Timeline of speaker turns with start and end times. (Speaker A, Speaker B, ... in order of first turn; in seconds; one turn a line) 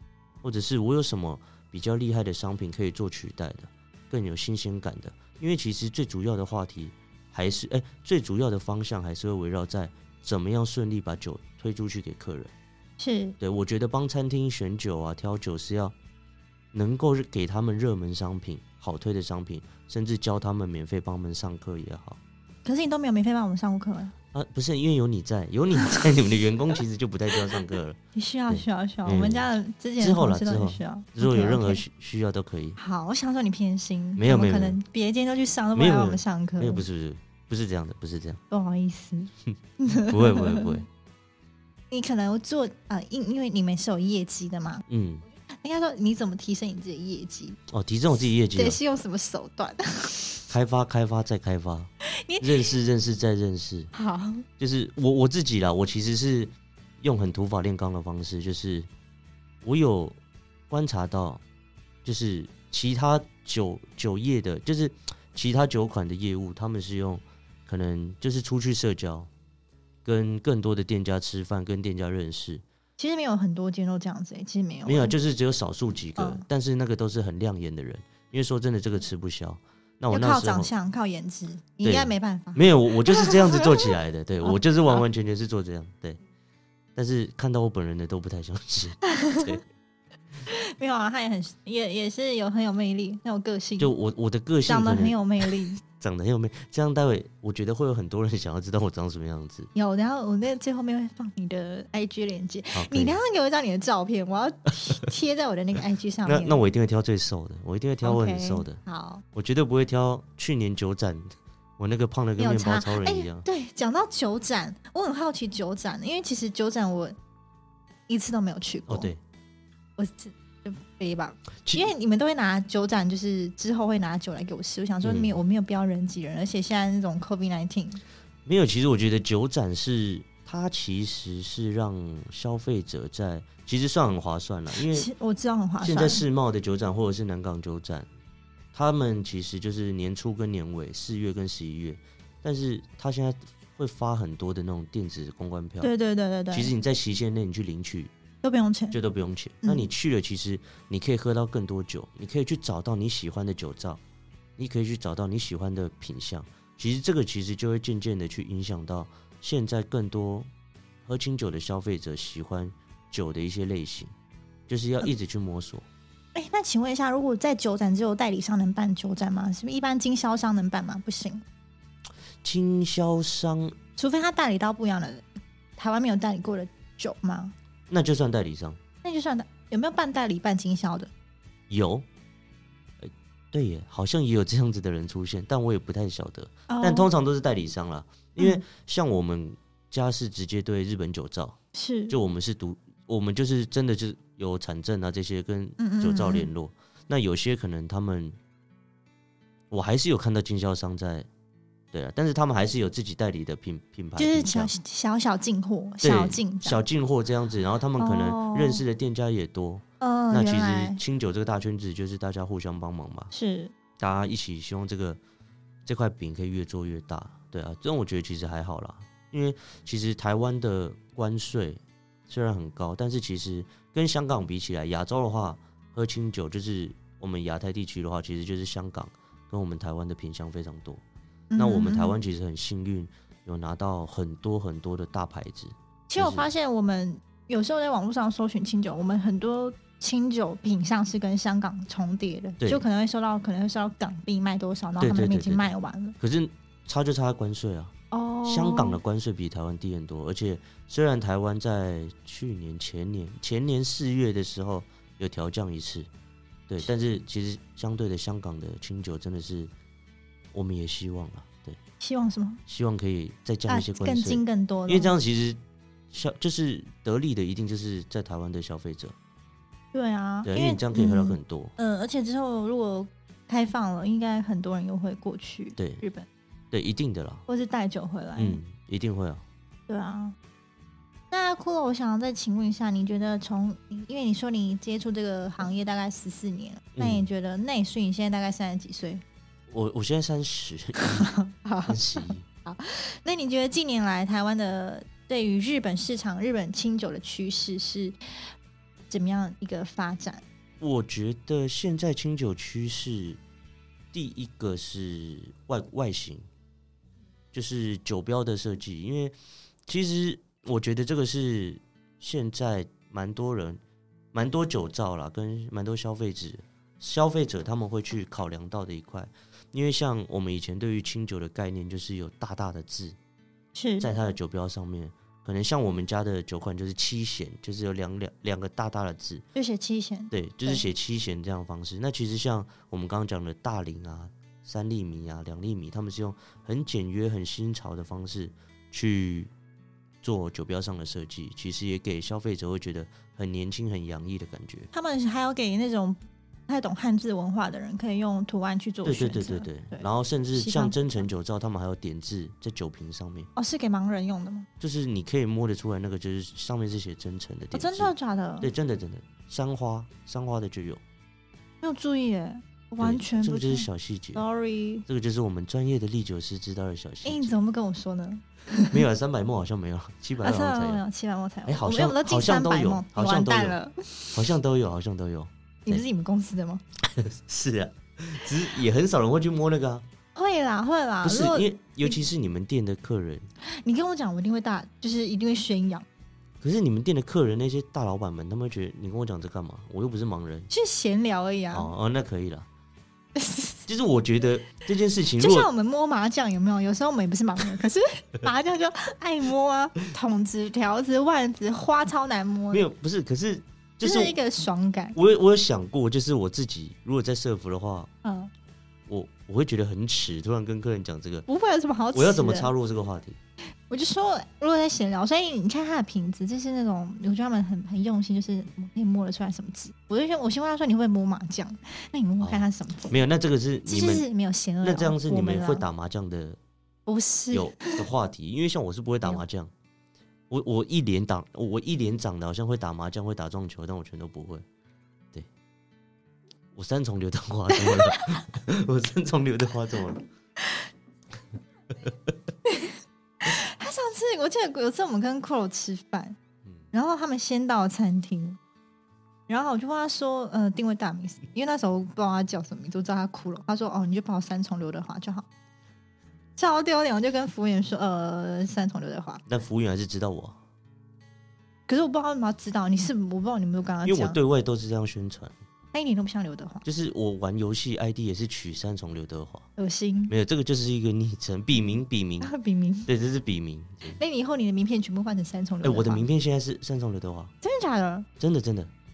Speaker A: 0.4-12.5
Speaker B: 13.0-13.3
Speaker A: 13.4-15.9
Speaker A: 16.7-22.2
Speaker B: 22.6-24.1
Speaker A: 24.3-29.5
Speaker B: 28.1-31.8
Speaker A: 30.0-32.8
Speaker B: 32.8-36.8
Speaker A: 34.2-34.8
Speaker A: 35.7-38.4
Speaker B: 38.5-40.8
Speaker A: 39.9-40.9
Speaker B: 41.9-44.8
Speaker A: 44.9-45.2
Speaker B: 45.6-47.6
Speaker A: 47.7-48.8
Speaker B: 48.5-50.5
Speaker A: 50.5-53.9
Speaker B: 52.0-52.7
Speaker B: 53.9-54.4
Speaker A: 54.6-58.9
Speaker A: 59.6-60.1
Speaker A: 60.7-61.4
Speaker A: 62.0-69.3
Speaker A: 70.0-72.6
Speaker B: 73.0-75.2
Speaker A: 74.8-80.7
Speaker B: 76.2-76.4
Speaker B: 80.1-85.0
Speaker A: 81.8-86.2
Speaker A: 87.0-89.6
Speaker B: 89.0-89.6
Speaker B: 90.5-93.9
Speaker A: 93.8-99.7
Speaker B: 94.7-95.8
Speaker B: 99.7-106.6
Speaker A: 102.7-103.2
Speaker A: 106.2-108.8
Speaker B: 108.0-109.2
Speaker A: 109.3-113.5
Speaker B: 112.4-117.2
Speaker B: 118.1-119.1
Speaker A: 118.9-119.2
Speaker B: 120.0-128.0
Speaker A: 125.0-125.3
Speaker A: 128.4-135.1
Speaker B: 134.8-136.2
Speaker A: 135.8-138.1
Speaker A: 138.7-145.9
Speaker B: 145.8-146.7
Speaker A: 146.5-148.1
Speaker B: 148.4-149.0
Speaker A: 148.9-154.0
Speaker B: 149.6-149.9
Speaker A: 154.6-160.5
Speaker A: 161.0-164.1
Speaker A: 164.7-165.8
Speaker B: 166.3-171.4
Speaker A: 172.4-173.8
Speaker B: 174.0-175.2
Speaker B: 175.8-177.5
Speaker A: 177.9-178.8
Speaker B: 179.0-181.1
Speaker A: 181.7-182.1
Speaker A: 183.0-191.6
Speaker B: 186.7-187.1
Speaker B: 191.7-192.2
Speaker A: 192.1-198.3
Speaker B: 195.8-196.5
Speaker A: 199.7-201.3
Speaker A: 201.9-204.7
Speaker B: 204.2-206.8
Speaker A: 206.0-213.3
Speaker B: 208.0-208.8
Speaker B: 210.0-211.0
Speaker B: 213.3-213.7
Speaker A: 214.0-215.2
Speaker A: 215.8-231.0
Speaker B: 231.5-232.2
Speaker A: 231.6-236.5
Speaker B: 236.1-246.2
Speaker A: 242.6-242.8
Speaker A: 245.0-247.9
Speaker B: 248.1-249.0
Speaker A: 248.4-256.1
Speaker A: 256.7-259.7
Speaker A: 260.5-261.8
Speaker B: 262.0-262.6
Speaker A: 262.7-265.6
Speaker B: 263.7-265.1
Speaker A: 266.1-269.1
Speaker B: 269.9-276.3
Speaker A: 270.4-271.7
Speaker A: 275.8-276.0
Speaker A: 276.7-277.4
Speaker B: 277.5-278.6
Speaker A: 278.4-279.4
Speaker B: 279.9-280.3
Speaker B: 281.3-289.2
Speaker A: 286.9-287.3
Speaker A: 289.7-291.3
Speaker B: 291.0-298.1
Speaker A: 291.9-292.4
Speaker B: 299.1-300.4
Speaker A: 300.8-303.4
Speaker A: 304.1-306.4
Speaker A: 307.5-309.3
Speaker A: 309.9-313.8
Speaker A: 314.3-323.1
Speaker B: 323.7-324.1
Speaker A: 324.0-329.4
Speaker B: 329.5-330.9
Speaker A: 330.3-339.5
Speaker A: 340.2-344.9
Speaker B: 344.9-351.2
Speaker A: 349.0-353.5
Speaker B: 353.6-354.7
Speaker A: 354.8-361.0
Speaker B: 357.7-358.7
Speaker B: 361.8-365.0
Speaker A: 363.0-364.4
Speaker A: 365.1-367.5
Speaker B: 367.2-369.0
Speaker A: 368.9-371.0
Speaker B: 370.4-374.4
Speaker A: 371.7-373.8
Speaker A: 374.3-376.0
Speaker B: 375.9-376.8
Speaker A: 377.0-380.0
Speaker B: 380.3-382.2
Speaker A: 381.2-383.5
Speaker B: 383.8-386.0
Speaker A: 386.6-390.7
Speaker B: 390.7-391.9
Speaker A: 391.7-392.7
Speaker B: 393.3-393.9
Speaker A: 393.9-395.7
Speaker B: 395.4-402.9
Speaker A: 402.7-404.4
Speaker B: 404.0-405.1
Speaker A: 405.1-408.1
Speaker B: 408.2-408.5
Speaker A: 409.1-411.4
Speaker B: 411.5-412.7
Speaker A: 412.1-413.4
Speaker B: 413.9-423.1
Speaker A: 422.4-424.2
Speaker B: 423.9-425.9
Speaker A: 424.8-426.6
Speaker B: 427.1-428.0
Speaker A: 427.5-429.7
Speaker A: 430.5-434.6
Speaker A: 436.7-440.2
Speaker B: 437.7-438.4
Speaker B: 442.6-446.4
Speaker B: 446.9-448.6
Speaker B: 449.5-455.4
Speaker B: 456.6-459.4
Speaker A: 459.5-460.6
Speaker B: 461.9-464.4
Speaker A: 464.0-465.5
Speaker B: 465.9-466.8
Speaker A: 466.8-469.7
Speaker B: 469.8-470.3
Speaker A: 470.3-472.5
Speaker B: 472.4-473.1
Speaker A: 473.1-474.2
Speaker B: 474.1-476.2
Speaker A: 475.8-477.5
Speaker B: 477.6-478.3
Speaker A: 478.4-478.9